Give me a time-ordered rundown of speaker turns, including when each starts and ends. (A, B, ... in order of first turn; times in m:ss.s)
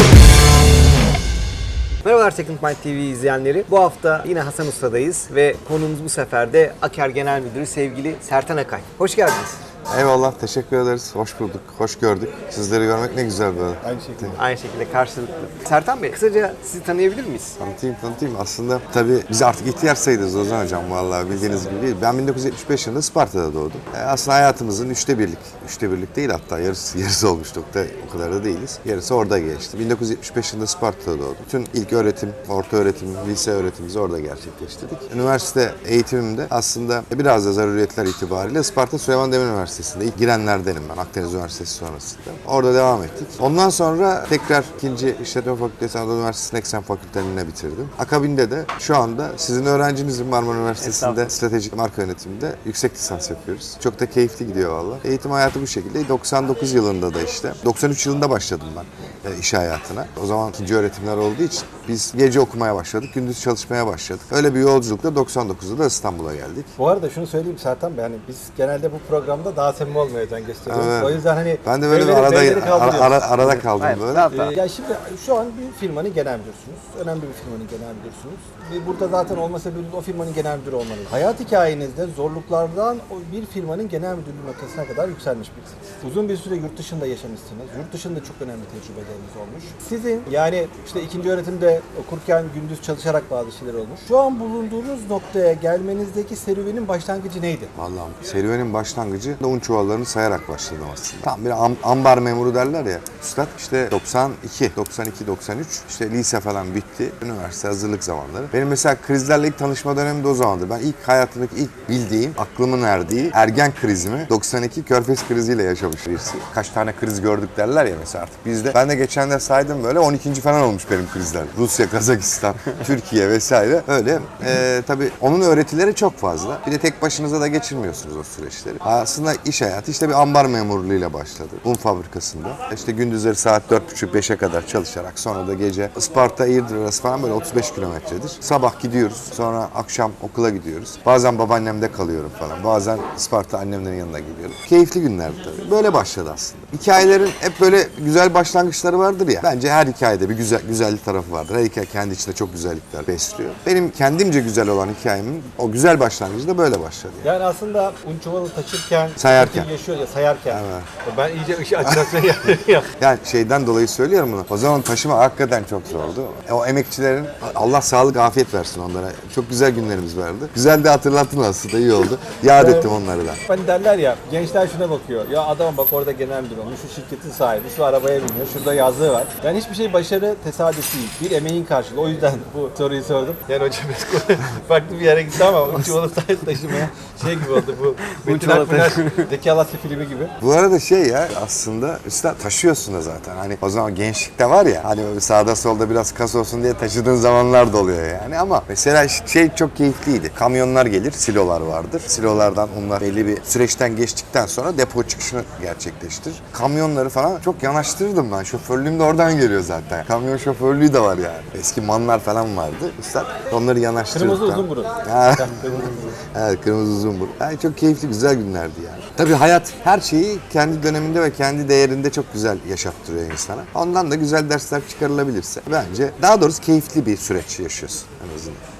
0:02.0-0:09.6 A
0:09.9-0:14.4 B
0:13.8-0:14.4 C
0:14.3-0:17.6 A
0:17.6-1:06.7 B
0:50.8-0:51.4 A
1:06.8-1:13.3 C
1:10.7-1:14.4 B
1:13.4-1:14.6 A
1:14.3-1:37.7 C
1:37.8-2:37.3 B
2:37.2-2:42.9 C
2:39.2-2:39.7 B
2:40.5-2:40.9 B
2:43.0-2:53.4 B
2:52.6-2:52.9 C
2:53.5-3:10.3 C
3:08.2-3:09.3 A
3:10.4-3:48.6 B
3:34.1-3:36.2 C